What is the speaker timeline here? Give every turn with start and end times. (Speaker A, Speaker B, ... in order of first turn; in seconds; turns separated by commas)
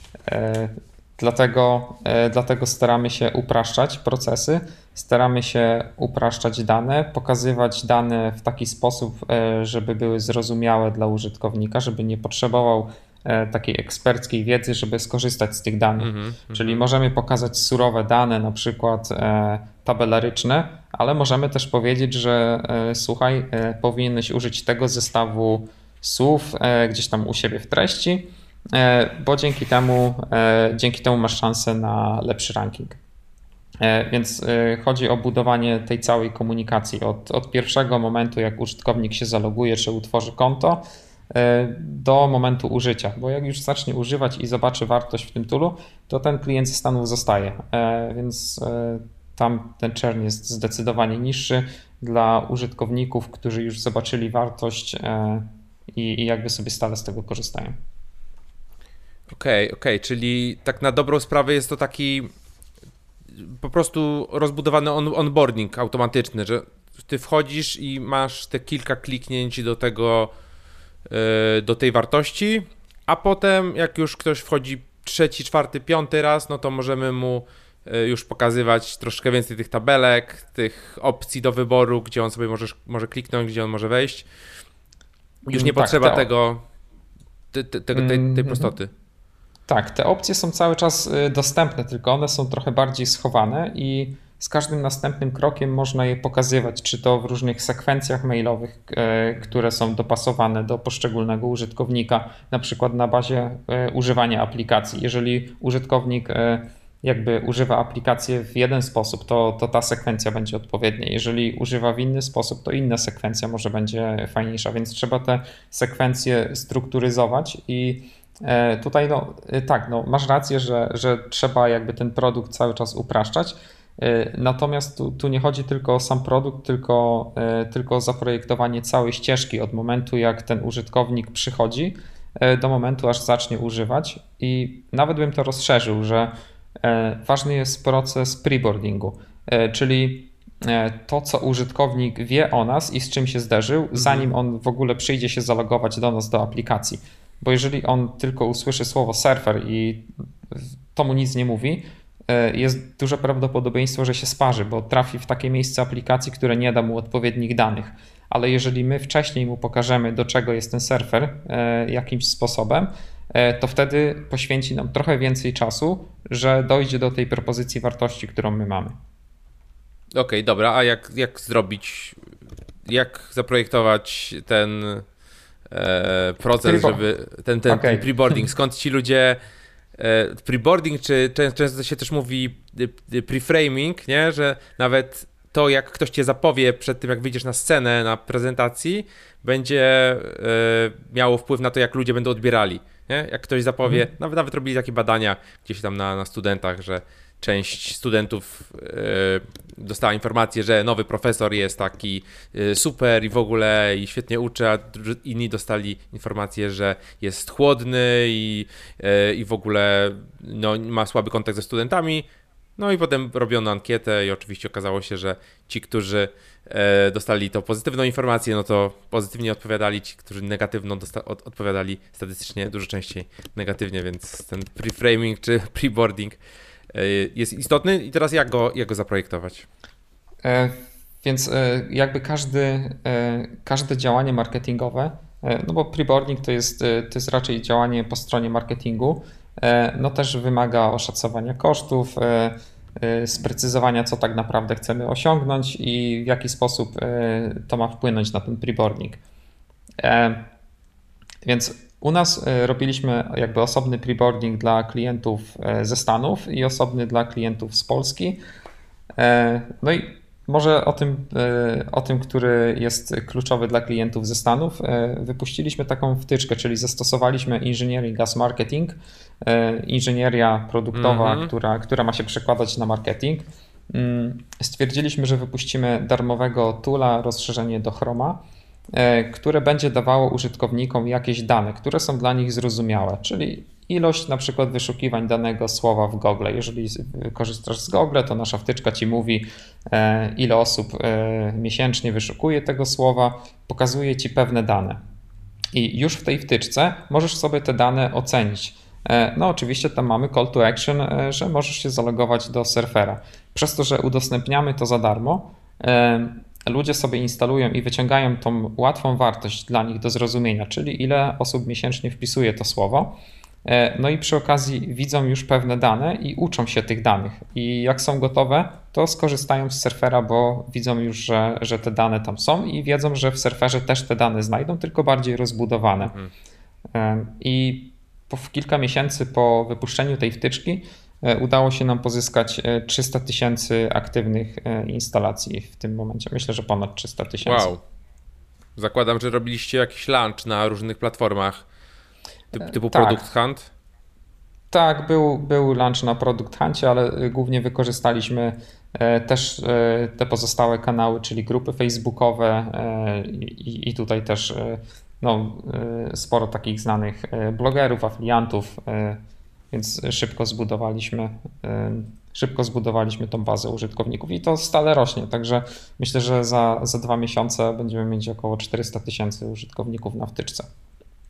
Speaker A: 0.3-33.0, Speaker B: 16.0-16.8, Speaker A: 33.8-57.8, Speaker B: 59.3-62.3, Speaker B: 63.4-70.3, Speaker B: 71.1-84.2, Speaker B: 85.5-86.6, Speaker A: 85.5-86.3, Speaker B: 87.5-88.9, Speaker A: 87.9-88.7, Speaker A: 89.7-169.0, Speaker B: 144.0-144.3, Speaker B: 170.1-172.2, Speaker B: 172.8-175.1, Speaker B: 175.7-179.4, Speaker A: 176.6-177.0, Speaker A: 177.7-178.1, Speaker B: 180.0-226.4, Speaker B: 226.9-229.7, Speaker A: 230.4-249.2, Speaker A: 250.0-250.4, Speaker A: 251.4-258.4, Speaker A: 259.2-278.4, Speaker B: 270.9-271.5, Speaker A: 278.9-295.0, Speaker A: 295.7-326.1, Speaker B: 326.0-326.3, Speaker A: 326.9-337.7, Speaker B: 337.4-337.8, Speaker B: 338.8-341.6, Speaker B: 342.5-343.7, Speaker A: 342.6-343.2, Speaker A: 344.7-359.2, Speaker A: 359.7-370.7